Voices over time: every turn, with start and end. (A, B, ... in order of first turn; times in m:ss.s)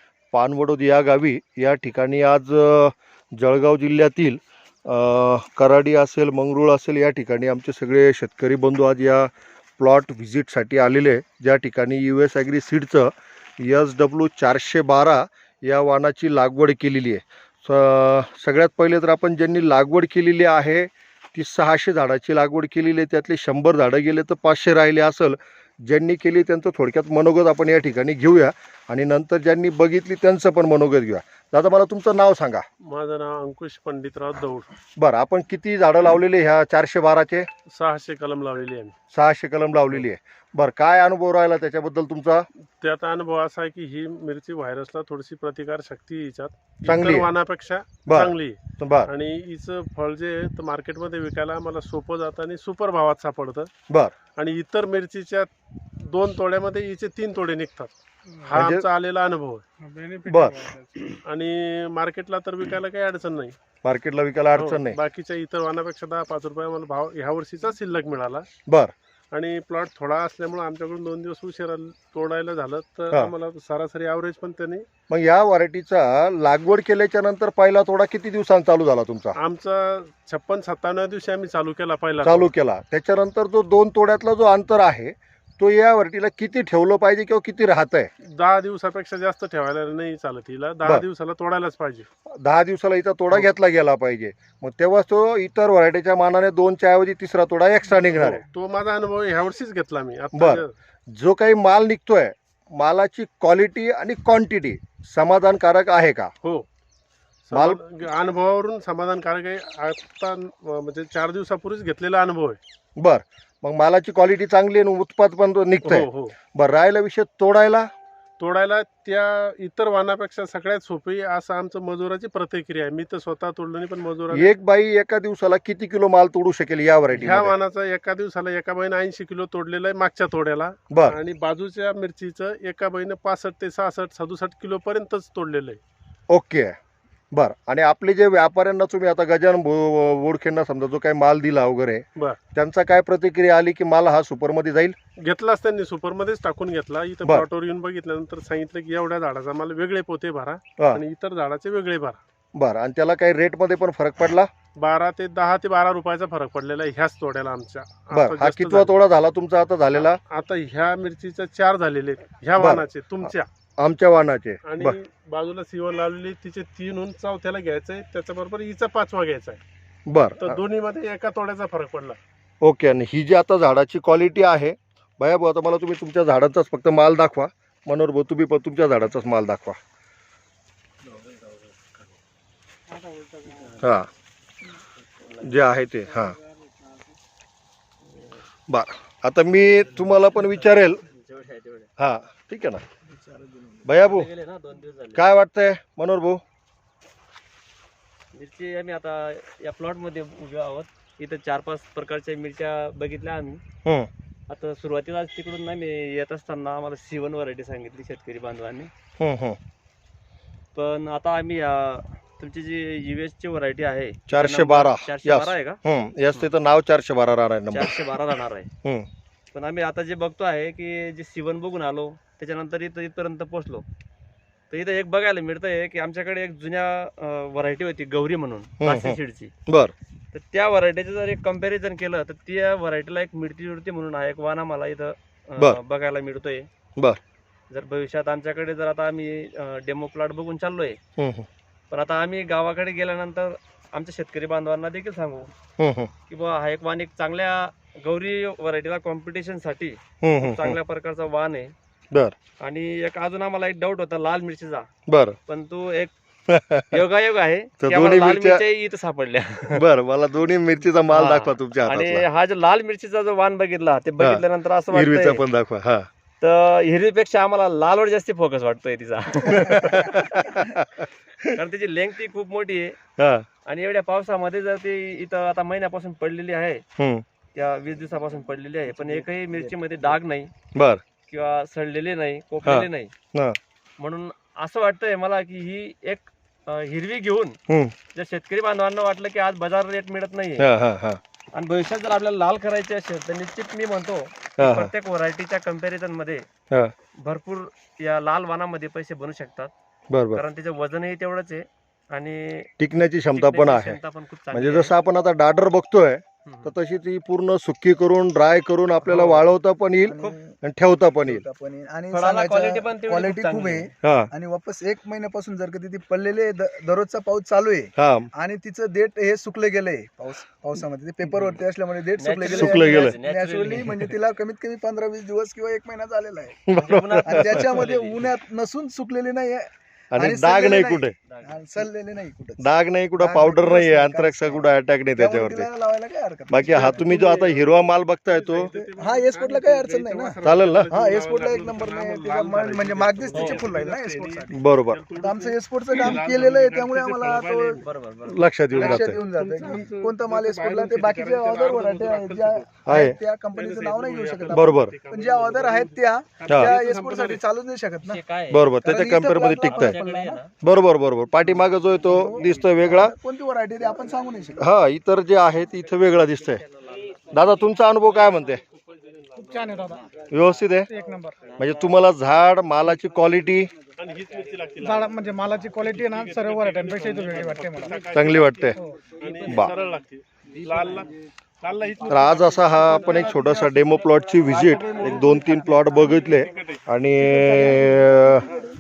0:00.3-0:32.6 A
0:32.8-0:34.7 B
0:35.0-0:37.5 A
0:37.7-0:39.0 B
0:39.1-0:42.5 A
0:42.8-0:53.7 B
0:46.8-0:47.3 A
0:48.1-0:49.1 A
0:53.9-0:54.2 A
0:54.4-1:03.6 B
0:58.5-0:58.8 A
1:00.3-1:00.6 A
1:03.8-1:05.0 A
1:04.6-1:08.5 B
1:08.7-1:08.9 A
1:09.3-1:14.9 B
1:15.1-1:19.4 A
1:19.4-1:22.5 B
1:22.2-1:28.1 A
1:28.2-1:32.1 B
1:32.4-1:38.4 A
1:38.0-1:40.7 B
1:40.3-1:46.3 A
1:47.5-1:52.6 B
1:47.5-1:47.8 A
1:53.0-1:57.9 A
1:55.8-1:56.3 B
1:58.4-2:04.5 B
2:04.3-2:07.5 A
2:07.1-2:15.8 B
2:10.9-2:11.2 A
2:16.3-2:16.8 A
2:17.3-2:25.0 A
2:25.2-2:32.2 B
2:32.6-2:34.5 A
2:34.8-2:39.0 B
2:38.1-2:40.2 A
2:39.9-2:43.5 B
2:42.6-2:45.0 A
2:44.6-2:49.6 B
2:50.1-2:50.6 A
2:50.4-2:52.2 B
2:52.6-2:59.8 A
3:03.8-3:04.1 A
3:05.0-3:05.6 C
3:05.4-3:06.4 A
3:08.0-3:08.4 C
3:08.7-3:11.0 A
3:10.1-3:11.9 C
3:12.0-3:12.8 A
3:13.3-3:13.6 D
3:13.8-3:14.3 A
3:13.9-3:15.2 C
3:15.1-3:16.4 A
3:18.3-3:23.6 C
3:23.8-3:24.1 A
3:24.5-3:28.9 C
3:29.2-3:29.6 A
3:30.7-3:35.8 C
3:34.3-3:38.1 A
3:37.7-3:38.7 C
3:39.5-3:43.9 C
3:44.7-3:49.6 C
3:48.8-3:49.9 A
3:50.3-3:56.7 C
3:57.7-4:01.0 C
4:01.2-4:01.5 A
4:01.9-4:05.5 C
4:05.8-4:06.1 A
4:06.3-4:11.7 C
4:10.2-4:10.8 A
4:12.6-4:14.9 C
4:15.1-4:15.4 A
4:15.5-4:16.1 C
4:16.5-4:17.0 A
4:16.9-4:19.8 C
4:17.8-4:18.6 A
4:19.7-4:22.3 A
4:21.1-4:25.4 C
4:24.2-4:26.1 A
4:26.4-4:30.3 C
4:29.5-4:31.6 A
4:31.5-4:33.0 C
4:33.2-4:33.5 A
4:33.6-4:36.8 C
4:37.0-4:37.2 A
4:37.5-4:40.5 C
4:38.9-4:40.2 D
4:40.7-4:41.0 A
4:41.2-4:43.1 C
4:42.6-4:43.6 A
4:44.0-4:47.6 C
4:47.7-4:48.0 A
4:48.1-4:50.7 C
4:50.6-4:51.2 A
4:51.5-4:56.5 C
4:54.6-4:54.9 A
4:57.2-4:59.7 C
5:00.1-5:00.4 A
5:00.3-5:02.7 C
5:02.8-5:04.0 A
5:03.3-5:05.0 C
5:04.5-5:11.4 A
5:06.4-5:06.7 C
5:09.0-5:09.4 C
5:10.0-5:10.6 D
5:10.1-5:10.4 C
5:11.2-5:26.7 D
5:12.1-5:13.9 C
5:14.0-5:14.3 A
5:18.0-5:18.3 A
5:21.3-5:21.6 C
5:22.2-5:24.0 C
5:22.4-5:23.2 A
5:26.7-5:27.9 A
5:26.8-5:28.3 C
5:27.2-5:37.4 D
5:30.1-5:31.2 A
5:31.3-5:31.7 C
5:32.6-5:35.7 A
5:36.5-5:38.7 A
5:36.6-5:47.9 B
5:38.7-5:40.4 D
5:40.4-5:40.9 A
5:40.9-5:44.6 D
5:43.3-5:43.7 C
5:44.5-5:45.0 A
5:45.2-5:47.8 D
5:47.8-5:48.4 C
5:48.3-5:49.2 A
5:48.7-5:53.0 B
5:48.7-5:58.2 D
5:52.9-5:53.2 A
5:53.5-5:57.4 B
5:54.5-5:55.0 A
5:56.5-5:56.8 A
5:58.0-5:58.8 C
5:58.5-6:03.1 A
5:58.8-6:00.4 D
5:59.7-6:00.6 C
6:02.0-6:04.7 D
6:04.6-6:06.6 A
6:06.2-6:07.4 C
6:07.3-6:08.6 A
6:08.2-6:10.0 B
6:09.4-6:10.0 E
6:10.3-6:10.9 A
6:10.9-6:11.4 E
6:11.4-6:11.8 C
6:11.6-6:13.7 A
6:14.0-6:23.5 B
6:14.8-6:18.1 E
6:18.1-6:18.8 A
6:18.8-6:19.0 E
6:19.4-6:19.7 A
6:22.1-6:28.5 A
6:23.4-6:23.8 C
6:24.4-6:25.3 C
6:24.6-6:25.5 B
6:26.2-6:26.9 B
6:27.8-6:28.1 D